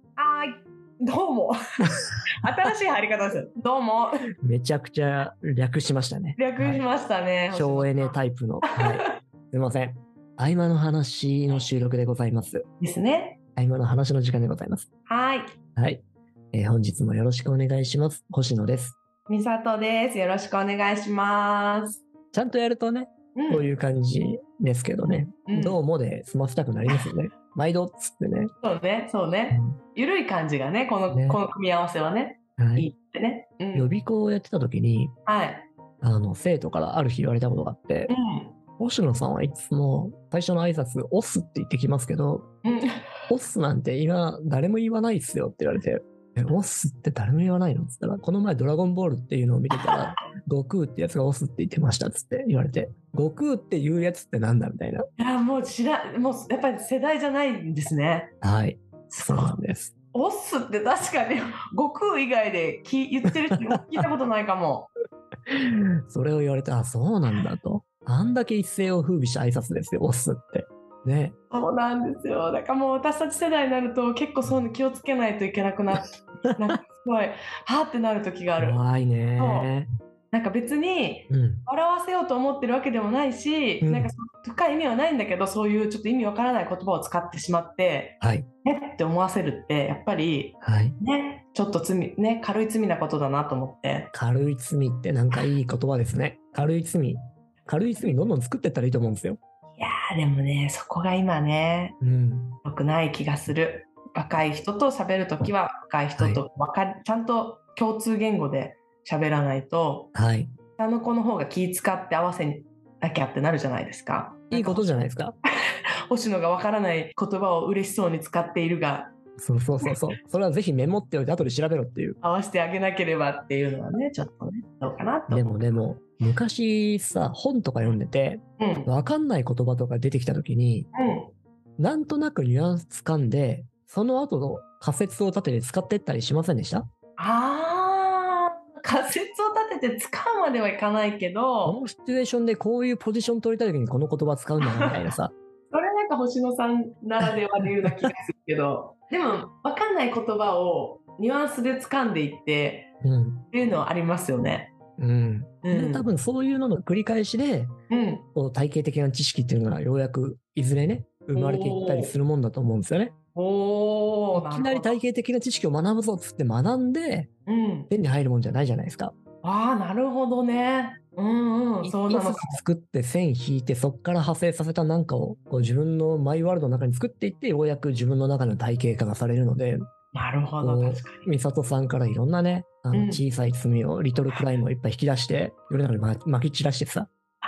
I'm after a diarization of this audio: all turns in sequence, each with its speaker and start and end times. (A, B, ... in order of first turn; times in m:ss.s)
0:00.2-0:01.8 A
0:02.4-0:04.1 A
0:04.4-0:06.8 B
0:06.4-0:09.1 A
0:07.5-0:12.6 B
0:12.8-0:13.4 A
0:13.6-0:14.9 B
0:15.1-0:15.6 A
0:15.8-0:19.0 B
0:19.3-0:22.0 A
0:22.3-0:28.5 B
0:23.3-0:23.7 A
0:25.5-0:25.8 A
0:28.6-0:33.9 A
0:29.5-0:29.8 B
0:31.1-0:31.4 B
0:32.6-0:32.9 B
0:33.7-0:35.1 B
0:35.2-0:35.6 A
0:36.0-0:38.1 B
0:38.1-0:38.5 A
0:38.8-0:42.5 B
0:42.6-0:42.9 A
0:43.3-0:55.1 B
0:49.7-0:50.1 A
0:55.2-0:58.3 A
0:58.4-0:59.9 B
0:59.1-0:59.6 A
1:00.1-1:04.9 A
1:05.5-1:11.4 B
1:11.5-1:18.8 A
1:18.6-1:19.9 B
1:19.4-1:19.7 A
1:20.3-1:34.1 A
1:21.3-1:21.6 B
1:23.8-1:24.1 B
1:28.2-1:28.5 B
1:30.6-1:31.0 B
1:34.1-1:39.4 B
1:39.8-1:42.0 A
1:42.0-1:42.6 B
1:42.6-1:50.1 A
1:50.1-1:50.5 B
1:50.8-1:55.1 A
1:54.5-1:55.4 B
1:56.1-1:59.1 A
1:59.4-2:02.2 B
2:02.2-2:05.8 A
2:05.3-2:10.9 B
2:08.6-2:08.9 A
2:10.9-2:11.3 A
2:11.8-2:16.8 B
2:17.2-2:21.8 A
2:21.6-2:25.3 B
2:24.6-2:25.0 A
2:25.7-2:32.9 A
2:33.0-2:33.4 B
2:33.5-2:34.7 A
2:35.0-2:37.7 B
2:35.6-2:36.1 A
2:37.9-2:38.2 A
2:38.3-2:43.1 B
2:41.3-2:42.1 A
2:43.3-2:45.0 A
2:44.3-2:47.3 B
2:47.4-2:47.9 A
2:47.9-2:49.1 B
2:49.4-2:52.6 A
2:51.8-2:59.9 B
3:00.1-3:01.3 A
3:00.6-3:07.1 B
3:02.9-3:03.2 A